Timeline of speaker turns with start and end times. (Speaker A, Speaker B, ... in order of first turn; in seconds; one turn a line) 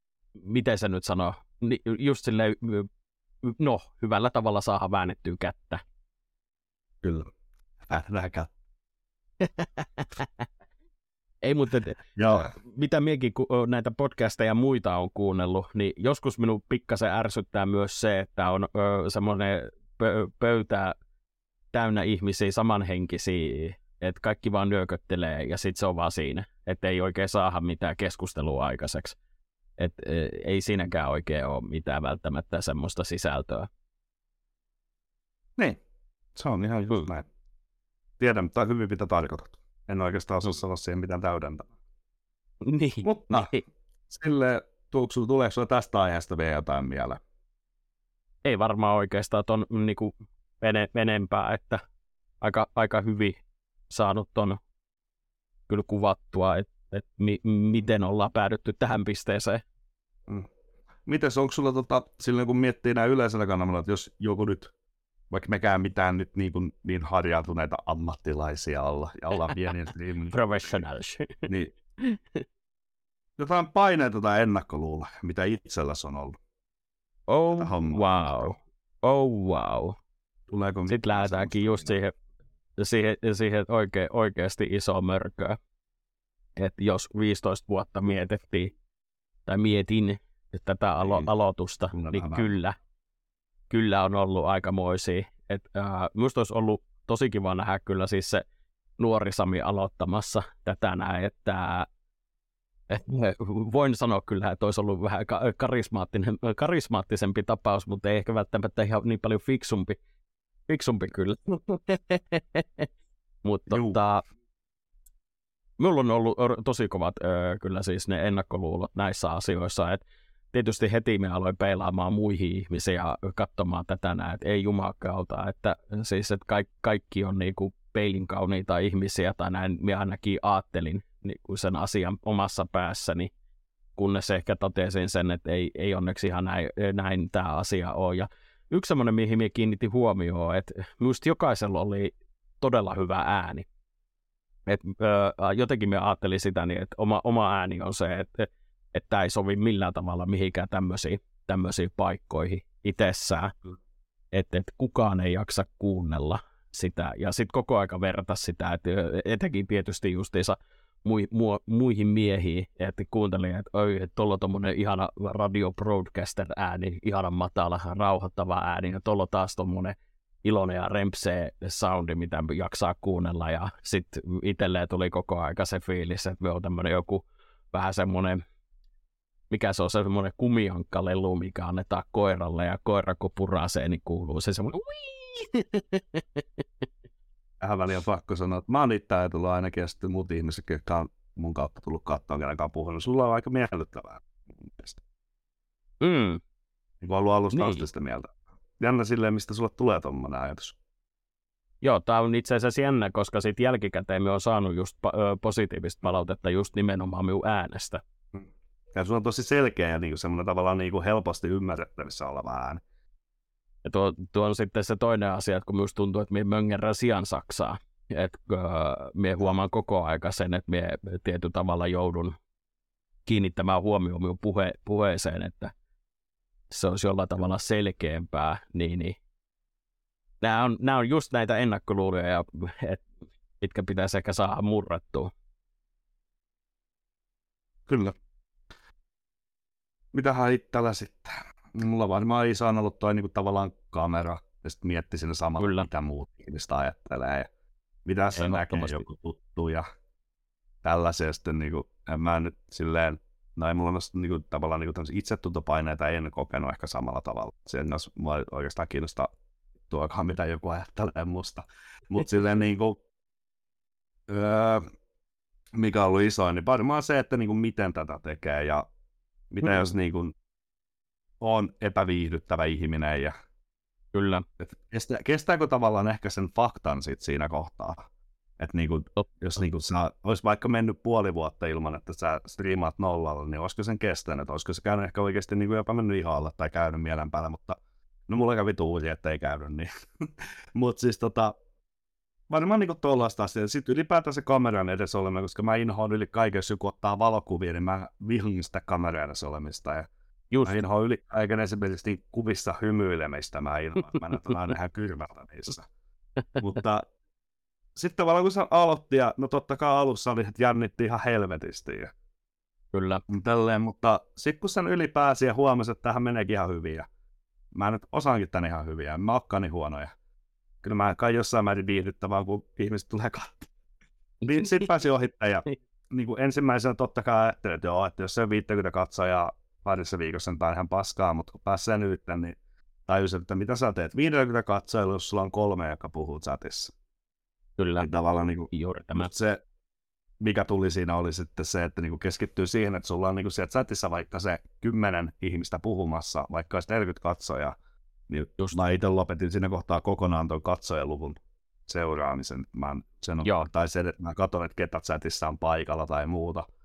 Speaker A: 0.4-2.9
Speaker A: 3.4-5.8
Speaker B: 7.0-7.3
Speaker B: 7.9-8.5
Speaker A: 9.4-10.4
Speaker A: 11.4-20.9
Speaker B: 12.2-12.5
Speaker A: 21.7-29.1
Speaker A: 29.8-33.7
Speaker B: 36.3-37.3
Speaker B: 38.2-41.7
Speaker A: 42.6-43.6
Speaker B: 43.0-43.5
Speaker B: 44.1-47.2
Speaker A: 48.4-51.8
Speaker A: 52.4-53.4
Speaker A: 53.9-54.6
Speaker A: 55.7-59.6
Speaker B: 61.0-64.7
Speaker B: 65.3-70.8
Speaker A: 70.3-71.4
Speaker B: 71.5-71.7
Speaker A: 72.0-72.4
Speaker B: 73.4-76.4
Speaker A: 77.3-80.0
Speaker B: 77.5-78.5
Speaker B: 80.5-81.9
Speaker A: 80.9-82.1
Speaker A: 82.8-85.6
Speaker A: 86.6-88.7
Speaker A: 89.5-92.7
Speaker B: 91.0-91.3
Speaker B: 91.9-92.5
Speaker A: 93.7-98.4
Speaker A: 99.0-101.9
Speaker A: 102.9-110.0
Speaker A: 110.7-112.9
Speaker A: 113.4-114.2
Speaker B: 113.7-114.0
Speaker A: 115.8-120.0
Speaker A: 120.5-133.3
Speaker A: 133.9-143.7
Speaker A: 144.7-153.5
Speaker A: 154.3-178.4
Speaker A: 179.5-186.4
Speaker B: 187.6-195.0
Speaker A: 196.0-196.4
Speaker B: 197.0-200.8
Speaker A: 197.5-197.8
Speaker A: 201.8-208.0
Speaker B: 208.3-212.8
Speaker A: 213.8-222.3
Speaker A: 223.2-225.7
Speaker A: 226.7-229.2
Speaker A: 230.4-233.0
Speaker A: 233.6-235.3
Speaker B: 237.9-238.1
Speaker B: 240.1-247.5
Speaker A: 245.6-245.9
Speaker B: 248.0-249.8
Speaker A: 248.3-249.1
Speaker B: 250.8-259.3
Speaker B: 259.9-263.0
Speaker B: 264.3-264.8
Speaker B: 265.8-268.8
Speaker B: 269.5-270.3
Speaker B: 271.4-273.3
Speaker A: 274.1-274.4
Speaker B: 274.6-278.0
Speaker B: 278.6-287.8
Speaker B: 288.3-289.9
Speaker B: 290.8-291.5
Speaker B: 292.5-300.1
Speaker A: 300.5-300.8
Speaker B: 300.6-305.9
Speaker A: 304.3-304.6
Speaker B: 306.6-307.0
Speaker B: 307.9-312.1
Speaker A: 312.9-313.2
Speaker B: 313.3-317.1
Speaker B: 317.7-320.1
Speaker B: 320.8-323.6
Speaker A: 324.4-324.9
Speaker B: 324.5-332.6
Speaker B: 333.1-336.9
Speaker A: 337.8-338.1
Speaker B: 338.0-339.6
Speaker A: 338.7-339.3
Speaker B: 340.4-347.7
Speaker B: 348.3-356.6